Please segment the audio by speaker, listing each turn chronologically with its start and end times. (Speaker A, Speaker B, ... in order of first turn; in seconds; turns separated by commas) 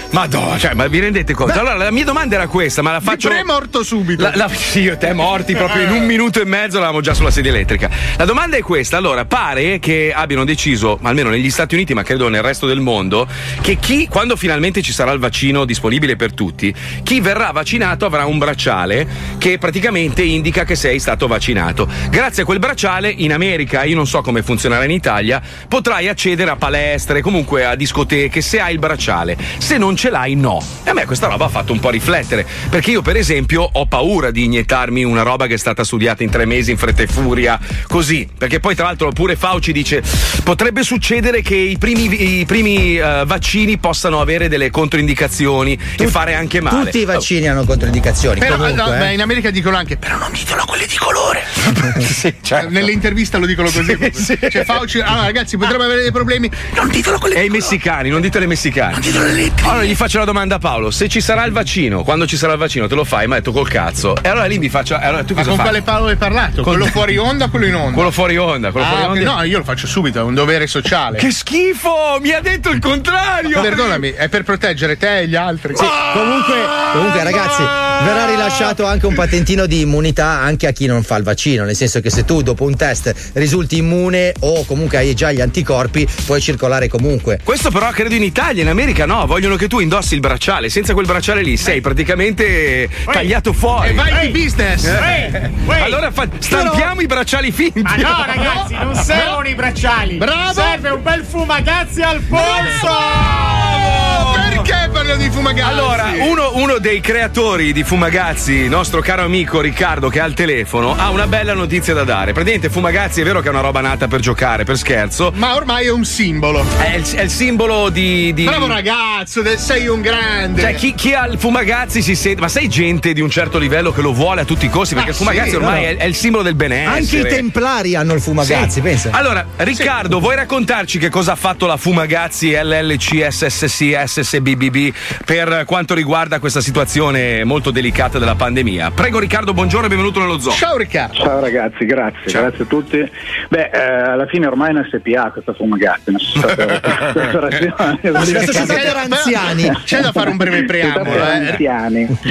Speaker A: 0.1-3.5, Speaker B: 3.0-4.4, Speaker A: 4.2-47.2, Speaker C: 46.0-49.1, Speaker B: 48.4-51.5, Speaker A: 51.8-52.9, Speaker B: 52.6-57.8, Speaker A: 53.7-54.8, Speaker A: 57.3-59.1, Speaker B: 59.0-59.7, Speaker A: 59.6-65.8, Speaker B: 65.4-68.1, Speaker A: 66.6-67.0, Speaker A: 67.9-69.3, Speaker B: 68.8-71.2, Speaker A: 71.2-74.0, Speaker B: 73.5-78.4, Speaker C: 75.7-87.4, Speaker A: 87.5-94.1, Speaker D: 93.0-93.3, Speaker B: 93.8-95.2, Speaker D: 94.0-94.4, Speaker A: 94.8-98.5, Speaker D: 94.9-96.0, Speaker B: 96.5-96.8, Speaker D: 97.8-103.2, Speaker B: 98.4-99.4, Speaker B: 100.2-100.8, Speaker B: 102.3-106.3, Speaker A: 103.4-104.7, Speaker A: 105.6-115.4, Speaker B: 115.3-116.7, Speaker A: 116.8-118.8, Speaker B: 118.4-120.8, Speaker A: 120.6-127.4, Speaker B: 125.0-125.8, Speaker C: 125.5-125.9, Speaker C: 126.8-129.2, Speaker A: 128.4-140.6, Speaker B: 140.5-141.2, Speaker E: 141.1-149.0, Speaker C: 148.2-149.8, Speaker B: 148.4-151.6, Speaker E: 150.0-152.1, Speaker A: 151.1-151.4